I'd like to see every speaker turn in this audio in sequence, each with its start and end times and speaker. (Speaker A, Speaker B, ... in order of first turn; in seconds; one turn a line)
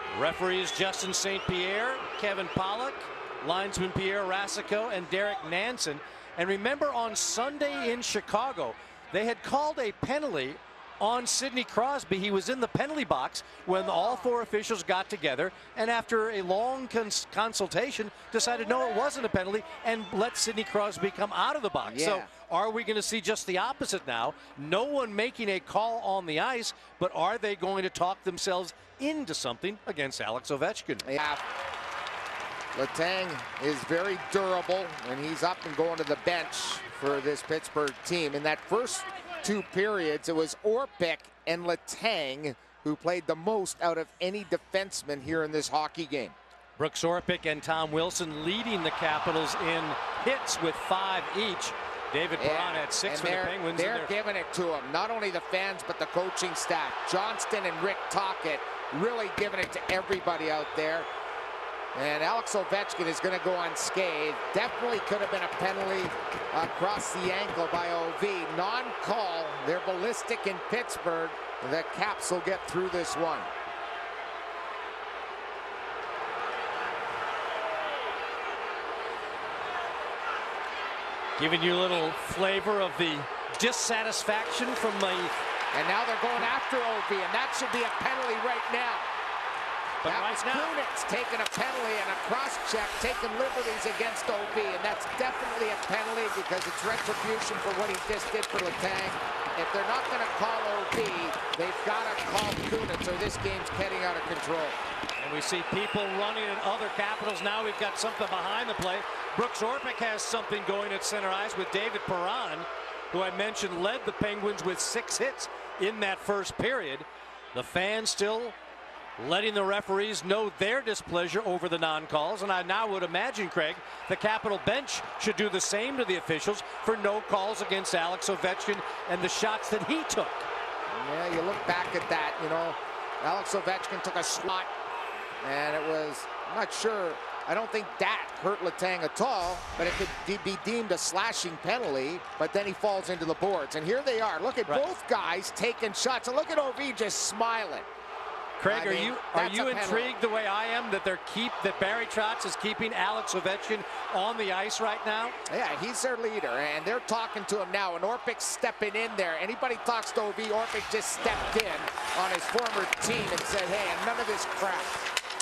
Speaker A: 0.1-31.1
Speaker B: 21.9-22.3
Speaker B: 31.0-31.4
Speaker B: 32.8-46.4
Speaker A: 46.8-54.1
Speaker B: 52.4-61.1
Speaker B: 61.9-73.5
Speaker A: 81.4-85.3
Speaker B: 85.7-89.1
Speaker A: 90.0-90.7
Speaker B: 90.0-104.8
Speaker A: 105.2-118.5
Speaker A: 119.2-130.5
Speaker B: 130.9-134.7
Speaker B: 135.4-147.9
Speaker A: 148.6-155.4
Speaker B: 148.6-150.1
Speaker B: 155.5-165.0